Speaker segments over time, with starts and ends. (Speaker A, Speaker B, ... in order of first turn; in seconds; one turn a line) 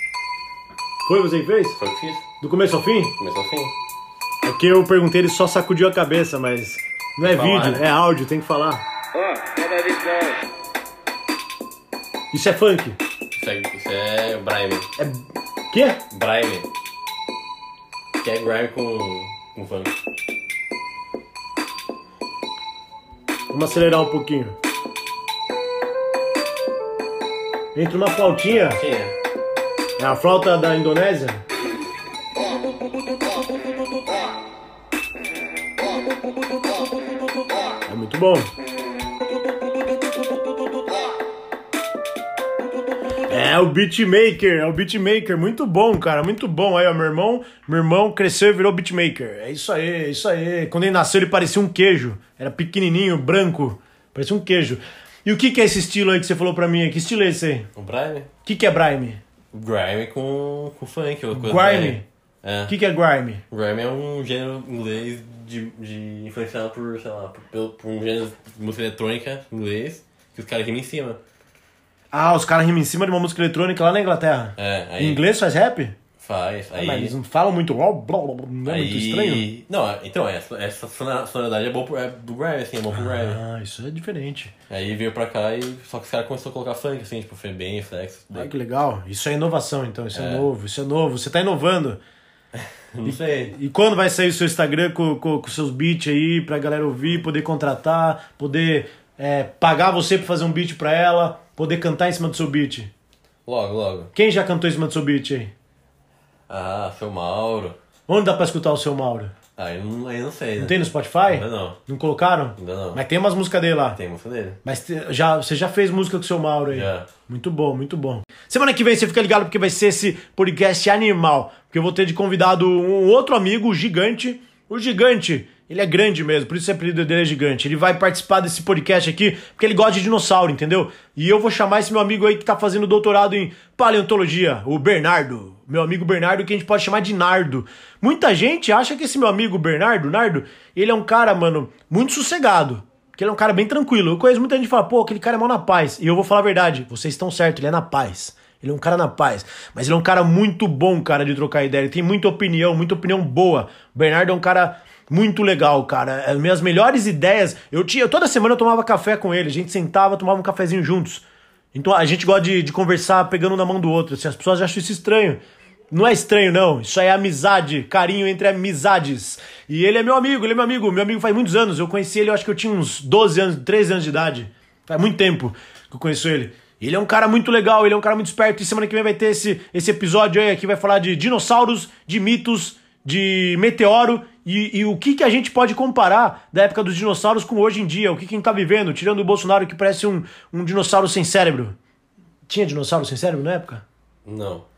Speaker A: 1.0-1.8
Speaker B: 1.8-2.3
Speaker A: 2.4-3.2
Speaker B: 3.2-3.7
Speaker A: 4.4-8.8
Speaker B: 7.2-7.9
Speaker A: 12.3-13.0
Speaker B: 13.3-14.9
Speaker A: 15.0-16.0
Speaker B: 16.1-16.7
Speaker B: 18.2-19.9
Speaker A: 23.5-24.6
Speaker A: 27.7-28.8
Speaker B: 28.5-29.1
Speaker A: 30.0-31.4
Speaker A: 37.9-38.5
Speaker A: 43.3-57.7
Speaker B: 57.8-58.3
Speaker A: 58.5-59.2
Speaker B: 59.5-62.8
Speaker A: 61.3-62.0
Speaker A: 62.7-63.4
Speaker B: 63.5-71.2
Speaker A: 72.1-76.0
Speaker B: 74.6-75.2
Speaker B: 76.2-77.2
Speaker A: 76.8-79.5
Speaker B: 78.7-83.4
Speaker A: 82.9-84.5
Speaker B: 84.7-88.5
Speaker A: 88.3-92.0
Speaker B: 90.1-90.5
Speaker B: 92.6-93.5
Speaker A: 93.0-102.9
Speaker B: 103.5-104.1
Speaker A: 104.2-105.5
Speaker B: 106.5-107.8
Speaker A: 108.1-109.3
Speaker B: 109.6-111.8
Speaker A: 110.6-114.0
Speaker B: 112.6-113.0
Speaker B: 114.0-114.6
Speaker A: 114.6-191.8
Speaker B: 116.7-117.1
Speaker A: 192.5-193.8
Speaker B: 194.3-194.7